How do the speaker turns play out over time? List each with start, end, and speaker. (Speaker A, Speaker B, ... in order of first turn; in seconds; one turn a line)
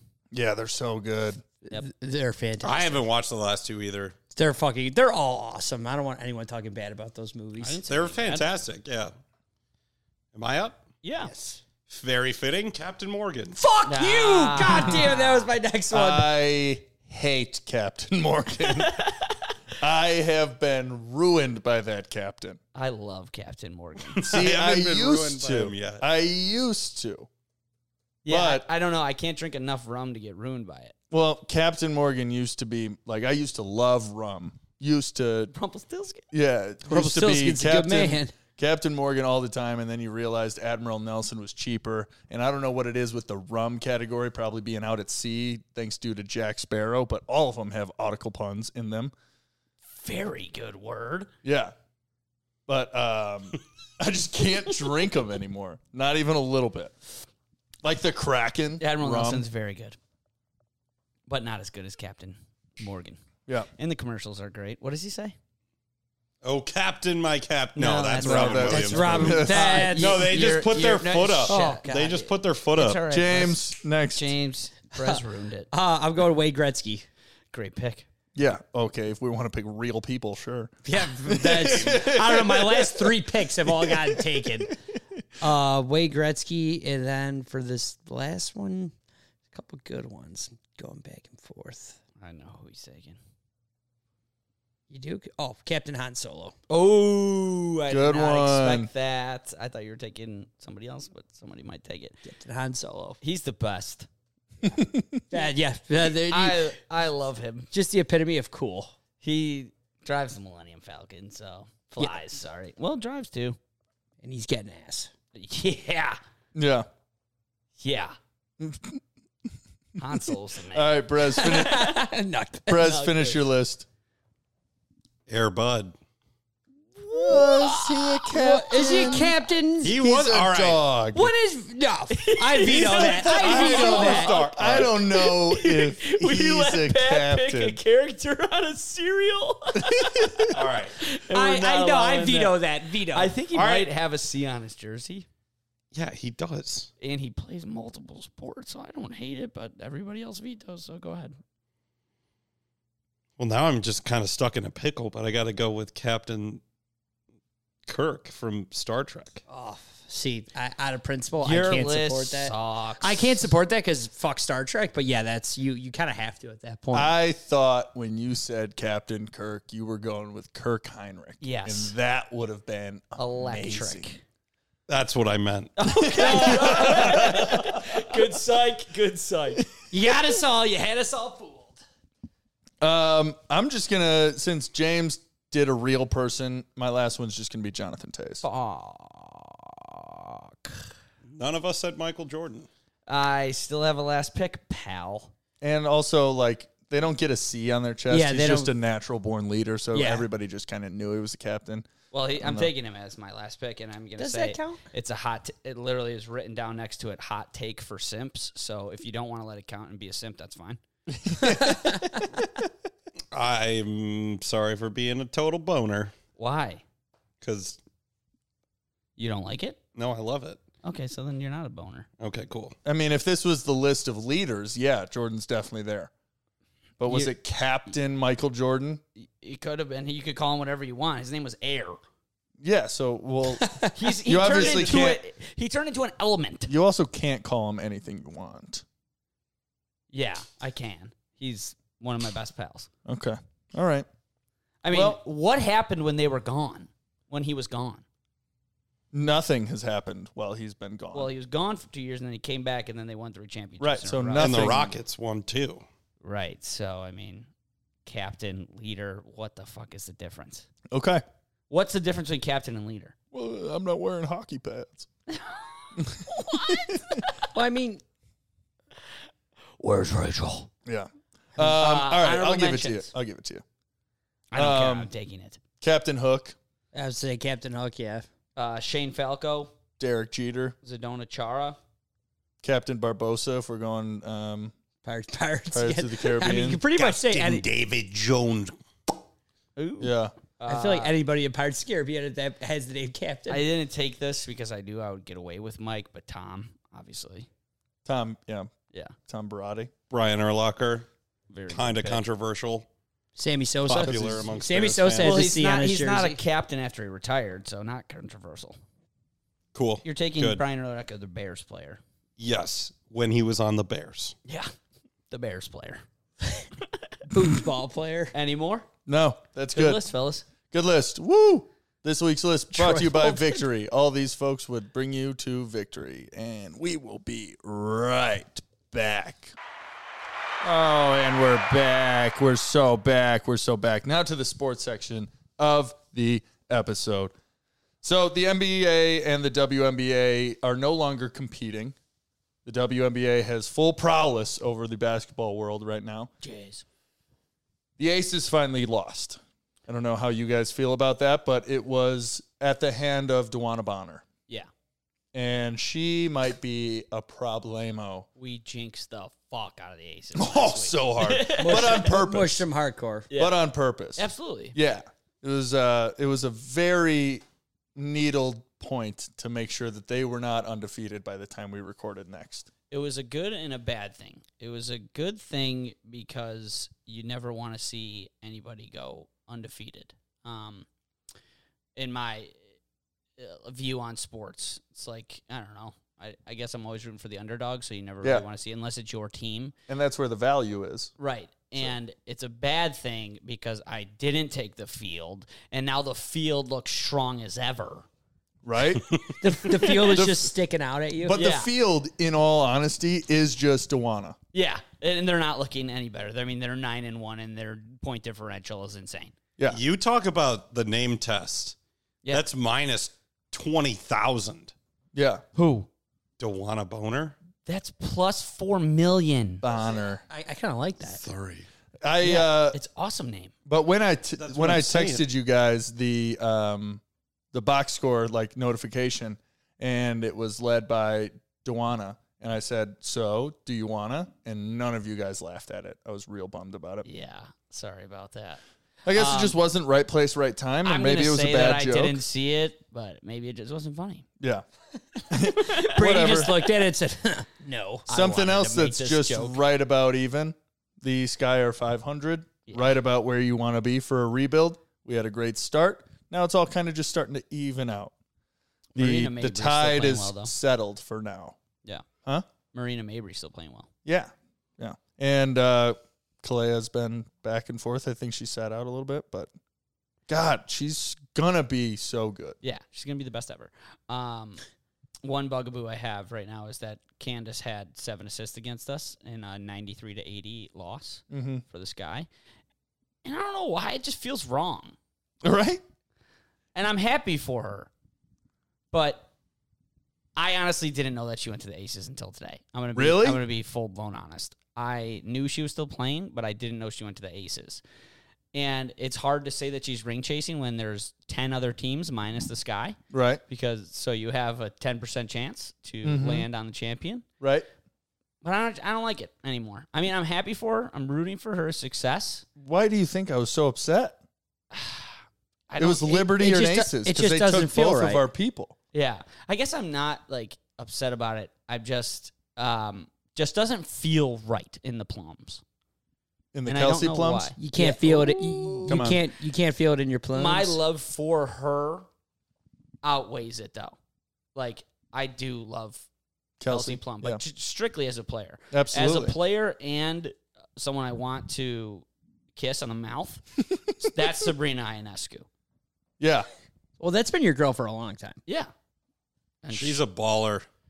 Speaker A: 0.3-1.5
Speaker B: 1.7-3.0
Speaker C: 2.6-4.2
Speaker B: 4.3-7.9
Speaker D: 7.6-8.6
Speaker C: 7.9-9.1
Speaker C: 10.3-10.9
Speaker D: 11.0-11.3
Speaker B: 11.2-11.6
Speaker C: 11.9-13.6
Speaker B: 13.6-16.4
Speaker D: 13.9-15.5
Speaker A: 15.9-19.1
Speaker D: 18.7-19.3
Speaker A: 19.8-22.6
Speaker D: 22.8-24.4
Speaker C: 24.1-26.0
Speaker A: 24.3-27.3
Speaker D: 28.2-30.9
Speaker A: 28.3-28.7
Speaker A: 31.1-35.5
Speaker D: 35.5-36.2
Speaker A: 36.3-49.1
Speaker B: 36.9-38.3
Speaker D: 49.9-51.3
Speaker A: 51.4-51.7
Speaker A: 52.7-57.0
Speaker A: 57.8-59.5
Speaker D: 58.8-60.0
Speaker D: 61.3-63.2
Speaker D: 63.8-65.3
Speaker C: 66.4-73.0
Speaker D: 67.8-75.7
Speaker A: 68.2-69.8
Speaker B: 68.7-70.4
Speaker B: 71.5-72.3
Speaker A: 73.1-74.4
Speaker B: 75.7-77.1
Speaker D: 77.5-78.1
Speaker A: 78.4-84.5
Speaker B: 80.8-84.8
Speaker B: 85.4-88.9
Speaker B: 89.5-92.0
Speaker D: 92.2-93.2
Speaker B: 94.9-96.6
Speaker D: 96.7-102.2
Speaker A: 97.9-98.9
Speaker B: 102.2-103.2
Speaker D: 103.2-104.1
Speaker A: 104.7-105.2
Speaker B: 105.3-106.7
Speaker D: 106.2-107.7
Speaker B: 107.7-108.9
Speaker D: 109.2-113.6
Speaker B: 114.2-115.1
Speaker D: 115.3-116.2
Speaker A: 116.5-116.9
Speaker D: 117.8-118.2
Speaker A: 118.6-119.0
Speaker D: 120.0-122.0
Speaker A: 120.7-121.9
Speaker B: 121.4-122.9
Speaker A: 122.7-123.9
Speaker D: 122.8-123.4
Speaker C: 125.3-125.9
Speaker A: 127.1-131.3
Speaker B: 127.3-130.0
Speaker C: 129.8-130.8
Speaker B: 131.1-134.3
Speaker D: 132.1-145.3
Speaker C: 132.7-134.9
Speaker A: 133.3-137.8
Speaker A: 139.8-140.5
Speaker C: 140.5-141.0
Speaker B: 141.1-143.4
Speaker C: 143.5-143.9
Speaker C: 145.9-146.9
Speaker D: 147.0-151.4
Speaker C: 153.4-156.6
Speaker C: 157.9-159.4
Speaker B: 159.5-167.2
Speaker D: 161.4-163.5
Speaker A: 166.9-174.1
Speaker D: 171.4-171.9
Speaker D: 173.2-174.2
Speaker C: 174.9-175.7
Speaker D: 175.8-179.7
Speaker A: 175.9-177.8
Speaker B: 176.2-177.4
Speaker B: 179.9-181.8
Speaker A: 182.8-188.4
Speaker D: 188.4-190.8
Speaker C: 191.3-192.7
Speaker D: 193.1-195.3
Speaker A: 195.6-201.9
Speaker B: 198.1-198.7
Speaker B: 199.9-200.3
Speaker D: 202.1-210.8
Speaker A: 202.4-202.7
Speaker B: 204.2-204.8
Speaker A: 211.1-212.1
Speaker C: 213.3-216.1
Speaker D: 216.4-216.8
Speaker C: 217.4-217.8
Speaker D: 219.2-219.8
Speaker C: 219.9-220.6
Speaker D: 220.8-222.1
Speaker C: 222.2-222.8
Speaker A: 222.8-226.1
Speaker A: 227.0-229.0
Speaker D: 229.2-232.0
Speaker A: 232.6-235.2
Speaker B: 233.6-234.1
Speaker D: 233.9-236.7
Speaker A: 236.7-238.8
Speaker D: 240.1-242.9
Speaker A: 243.1-244.1
Speaker D: 244.8-248.0
Speaker A: 244.9-245.2
Speaker A: 249.1-251.3
Speaker D: 251.1-254.8
Speaker A: 253.8-255.0
Speaker C: 254.4-255.9
Speaker D: 256.2-257.5
Speaker D: 258.1-260.7
Speaker A: 260.9-261.2
Speaker D: 261.7-263.1
Speaker A: 263.3-265.1
Speaker D: 265.3-265.6
Speaker A: 266.0-267.0
Speaker D: 266.3-267.2
Speaker B: 267.5-268.0
Speaker D: 269.8-270.7
Speaker A: 270.9-273.6
Speaker D: 271.6-273.1
Speaker D: 274.5-275.6
Speaker A: 274.6-275.1
Speaker A: 275.8-276.6
Speaker B: 276.9-278.3
Speaker D: 278.6-279.7
Speaker A: 280.0-280.8
Speaker D: 280.8-281.8
Speaker A: 282.6-284.7
Speaker B: 285.0-287.6
Speaker A: 285.7-286.8
Speaker C: 286.9-288.8
Speaker D: 289.8-291.1
Speaker A: 290.0-290.3
Speaker B: 290.7-293.7
Speaker D: 293.5-297.5
Speaker A: 298.1-298.7
Speaker A: 299.3-299.9
Speaker C: 300.1-301.1
Speaker D: 301.5-302.2
Speaker C: 301.7-302.9
Speaker B: 303.4-306.4
Speaker C: 303.9-305.5
Speaker A: 304.0-304.5
Speaker D: 305.2-308.8
Speaker C: 309.7-310.6
Speaker D: 310.0-312.0
Speaker C: 312.4-314.4
Speaker D: 314.5-314.7
Speaker D: 315.3-316.0
Speaker B: 317.3-318.3
Speaker D: 318.3-318.9
Speaker A: 319.1-320.0
Speaker D: 319.8-320.5
Speaker A: 320.7-329.6
Speaker B: 322.7-323.6
Speaker A: 330.6-337.3
Speaker A: 338.0-341.9
Speaker A: 342.6-346.3
Speaker D: 346.4-346.8
Speaker A: 348.0-354.2
Speaker A: 355.3-358.3
Speaker D: 358.4-362.1
Speaker A: 360.4-362.6
Speaker B: 361.6-363.3
Speaker D: 363.3-363.6
Speaker A: 363.4-367.4
Speaker D: 364.2-364.8
Speaker A: 368.0-372.7
Speaker D: 372.9-380.9
Speaker D: 382.0-382.6
Speaker D: 383.4-389.7
Speaker A: 389.9-391.1
Speaker D: 391.2-398.1
Speaker A: 398.6-400.5
Speaker B: 399.4-401.4
Speaker D: 399.8-400.1
Speaker A: 401.2-404.4
Speaker D: 401.3-401.7
Speaker D: 404.5-409.3
Speaker C: 409.7-411.8
Speaker C: 412.3-414.7
Speaker A: 415.1-415.4
Speaker D: 415.6-415.9
Speaker C: 416.4-417.4
Speaker D: 417.7-419.6
Speaker A: 419.6-420.2
Speaker B: 419.7-421.2
Speaker C: 421.1-421.7
Speaker A: 422.0-422.8
Speaker D: 422.2-423.5
Speaker A: 423.7-427.0
Speaker C: 424.4-425.2
Speaker A: 427.5-437.1
Speaker D: 437.1-438.6
Speaker A: 439.1-442.2
Speaker D: 439.1-439.6
Speaker D: 440.9-444.3
Speaker A: 445.3-446.5
Speaker D: 445.6-446.4
Speaker B: 445.7-448.1
Speaker D: 448.1-449.6
Speaker A: 448.1-458.1
Speaker D: 458.9-460.5
Speaker A: 459.0-461.6
Speaker D: 462.7-463.9
Speaker A: 464.1-469.5
Speaker A: 470.3-472.6
Speaker D: 472.6-474.6
Speaker D: 475.2-482.3
Speaker A: 481.3-481.6
Speaker D: 483.2-485.0
Speaker A: 485.4-485.8
Speaker D: 486.8-487.9
Speaker D: 488.9-489.3
Speaker D: 490.4-497.8
Speaker A: 493.0-493.4
Speaker D: 498.5-503.0
Speaker A: 503.1-503.4
Speaker D: 503.5-507.2
Speaker A: 506.0-506.5
Speaker A: 507.4-507.7
Speaker D: 508.4-512.5
Speaker A: 512.6-514.2
Speaker D: 514.7-516.3
Speaker A: 515.8-518.8
Speaker B: 516.1-518.2
Speaker D: 518.9-525.6
Speaker A: 526.5-529.2
Speaker D: 526.6-527.7
Speaker B: 527.6-530.8
Speaker D: 530.4-532.1
Speaker D: 533.0-534.0
Speaker D: 534.5-536.1
Speaker A: 536.6-537.4
Speaker D: 536.7-542.0
Speaker A: 538.7-539.3
Speaker D: 542.6-543.5
Speaker D: 544.0-545.5
Speaker A: 546.2-546.5
Speaker B: 547.0-548.4
Speaker D: 548.5-548.7
Speaker D: 549.6-550.0
Speaker C: 549.7-550.7